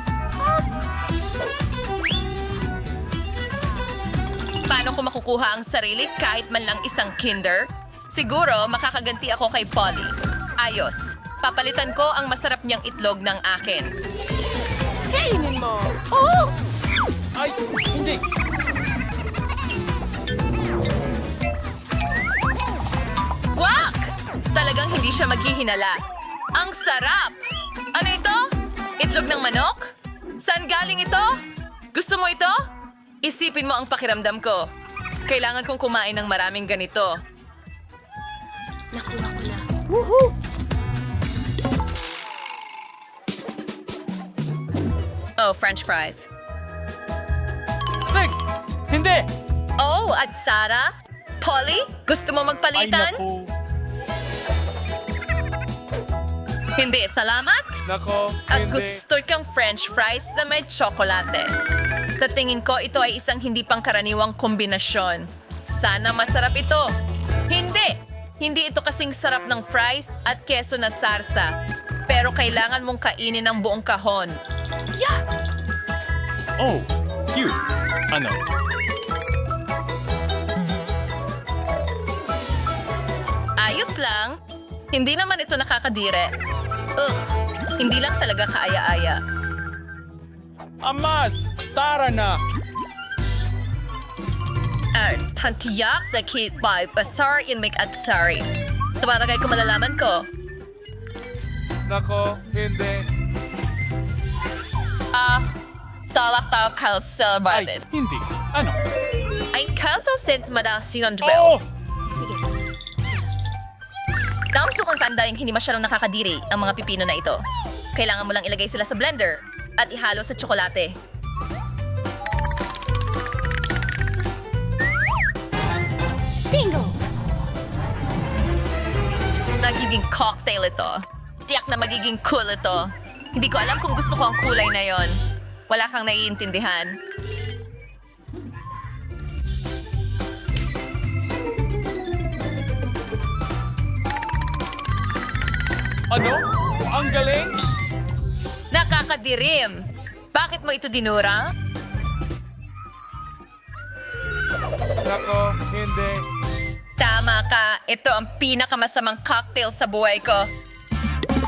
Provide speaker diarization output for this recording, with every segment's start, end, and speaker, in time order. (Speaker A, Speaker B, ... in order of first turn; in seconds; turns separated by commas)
Speaker A: 0.4-0.7, Speaker B: 4.7-13.9, Speaker A: 15.1-16.5, Speaker C: 17.4-18.2, Speaker B: 23.5-26.0, Speaker B: 26.6-27.4, Speaker B: 27.9-28.4, Speaker B: 29.0-29.8, Speaker B: 30.4-31.3, Speaker B: 31.9-32.5, Speaker B: 33.2-34.6, Speaker B: 35.3-37.1, Speaker A: 38.9-40.4, Speaker B: 45.4-46.3, Speaker C: 48.1-48.4, Speaker C: 48.9-49.3, Speaker B: 49.8-50.9, Speaker B: 51.4-53.2, Speaker C: 52.8-53.5, Speaker B: 56.8-57.8, Speaker C: 57.9-59.0, Speaker B: 58.5-61.5, Speaker B: 62.2-66.9, Speaker B: 67.5-71.5, Speaker B: 72.1-74.3, Speaker C: 76.6-77.5, Speaker B: 83.6-84.3, Speaker B: 84.9-86.3, Speaker B: 87.0-87.3, Speaker B: 87.8-89.2, Speaker C: 90.8-92.4, Speaker B: 95.0-98.5, Speaker B: 99.0-100.3, Speaker C: 101.9-103.0, Speaker B: 105.1-105.5, Speaker B: 106.1-107.8, Speaker C: 107.5-108.8, Speaker B: 109.5-111.6, Speaker C: 111.2-111.6, Speaker A: 112.2-112.5, Speaker B: 114.5-117.4, Speaker B: 118.0-121.0, Speaker A: 126.5-127.0, Speaker B: 129.6-135.2, Speaker B: 135.7-136.9, Speaker C: 146.1-147.6, Speaker B: 148.7-149.8, Speaker B: 150.3-151.4, Speaker C: 155.0-156.2, Speaker B: 157.0-160.5